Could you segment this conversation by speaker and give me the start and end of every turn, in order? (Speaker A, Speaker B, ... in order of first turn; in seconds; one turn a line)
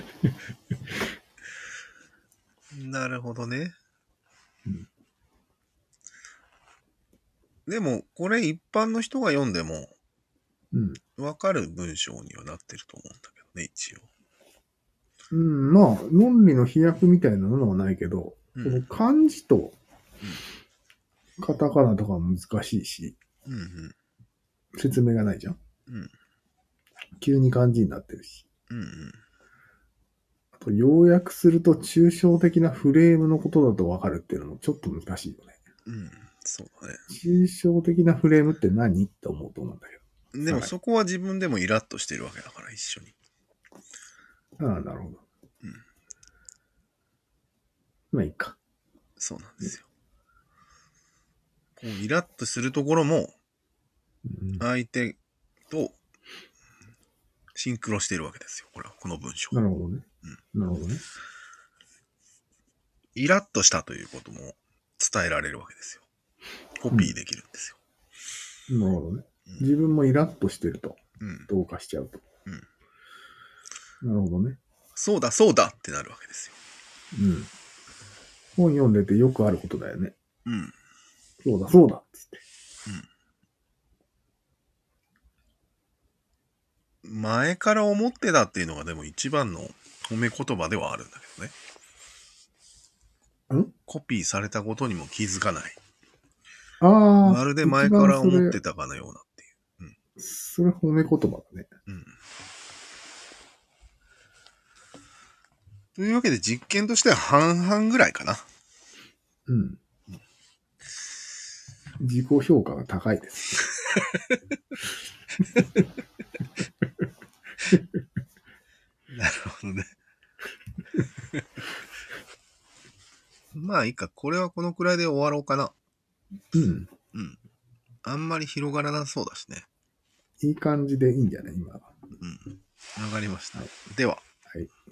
Speaker A: 2.7-3.8
Speaker A: 7.7-9.9
Speaker B: 10.7-11.0
Speaker A: 11.2-14.1
Speaker B: 15.3-19.8
Speaker A: 18.6-18.8
Speaker B: 21.4-23.2
Speaker A: 23.5-23.9
Speaker B: 24.8-25.6
Speaker B: 27.2-28.5
Speaker A: 28.7-29.2
Speaker B: 30.6-35.6
Speaker A: 35.9-37.0
Speaker B: 37.1-40.7
Speaker A: 40.3-43.1
Speaker B: 44.6-45.2
Speaker B: 48.1-48.6
Speaker A: 49.2-49.9
Speaker A: 51.8-53.3
Speaker B: 54.3-54.6
Speaker A: 54.6-55.2
Speaker A: 55.7-56.0
Speaker A: 57.6-59.6
Speaker B: 59.5-61.0
Speaker A: 63.1-66.0
Speaker A: 66.8-67.8
Speaker B: 68.7-72.2
Speaker A: 71.2-71.5
Speaker B: 74.0-74.6
Speaker A: 75.0-76.6
Speaker B: 77.1-77.5
Speaker B: 78.6-80.1
Speaker A: 80.5-80.8
Speaker B: 81.4-82.4
Speaker A: 87.0-91.5
Speaker A: 93.9-95.8
Speaker B: 96.8-98.6
Speaker A: 97.2-99.9
Speaker B: 100.2-101.7
Speaker A: 101.9-102.1
Speaker A: 106.0-108.4
Speaker B: 109.5-109.8
Speaker B: 112.0-113.7
Speaker A: 113.9-114.4
Speaker A: 119.1-119.9
Speaker A: 123.5-125.7
Speaker B: 126.5-126.9
Speaker A: 127.1-127.4
Speaker A: 128.0-129.7
Speaker B: 130.4-131.9
Speaker A: 132.2-134.2